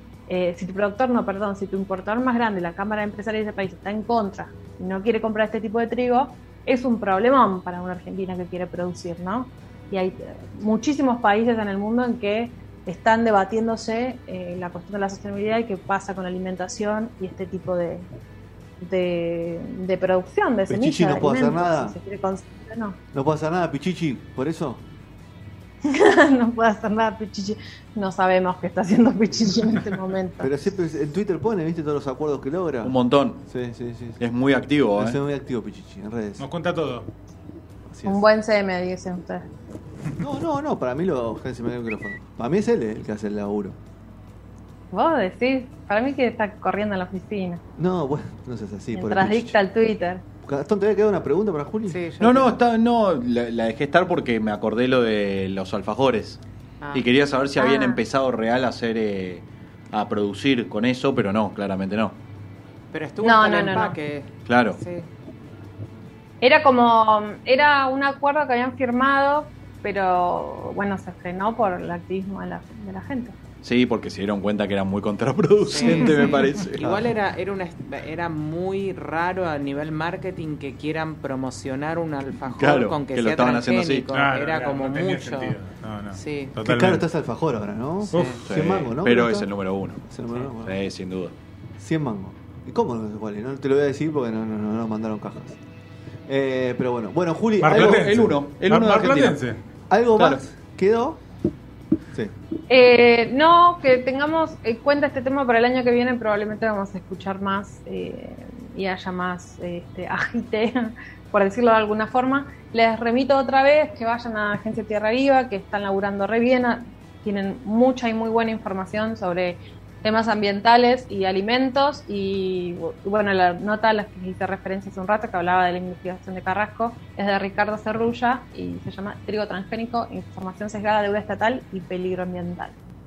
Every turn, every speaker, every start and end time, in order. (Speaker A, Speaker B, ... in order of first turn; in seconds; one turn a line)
Speaker A: 0.3-18.0
Speaker A: 18.8-23.0
Speaker B: 20.7-22.0
Speaker B: 23.1-24.8
Speaker A: 25.8-30.5
Speaker B: 30.4-34.2
Speaker C: 32.8-33.4
Speaker C: 34.2-35.2
Speaker B: 34.9-36.4
Speaker D: 36.4-37.1
Speaker B: 37.9-38.2
Speaker A: 38.0-39.5
Speaker B: 40.2-43.8
Speaker A: 44.9-47.6
Speaker B: 47.8-49.5
Speaker A: 48.9-50.2
Speaker B: 50.4-52.0
Speaker E: 51.9-52.5
Speaker C: 52.2-56.4
Speaker C: 56.9-62.1
Speaker A: 57.6-58.0
Speaker E: 62.9-65.1
Speaker A: 63.2-64.0
Speaker C: 64.5-64.8
Speaker A: 66.4-73.3
Speaker C: 73.6-76.8
Speaker E: 75.6-86.5
Speaker B: 76.8-77.1
Speaker C: 82.5-84.1
Speaker D: 84.1-87.0
Speaker B: 86.6-89.5
Speaker D: 88.1-88.4
Speaker E: 88.1-88.4
Speaker C: 88.4-90.0
Speaker B: 90.0-90.8
Speaker C: 90.6-91.3
Speaker B: 91.8-95.6
Speaker B: 96.3-98.4
Speaker D: 97.6-99.6
Speaker C: 97.6-99.4
Speaker B: 99.9-101.2
Speaker C: 100.2-100.4
Speaker A: 102.7-132.8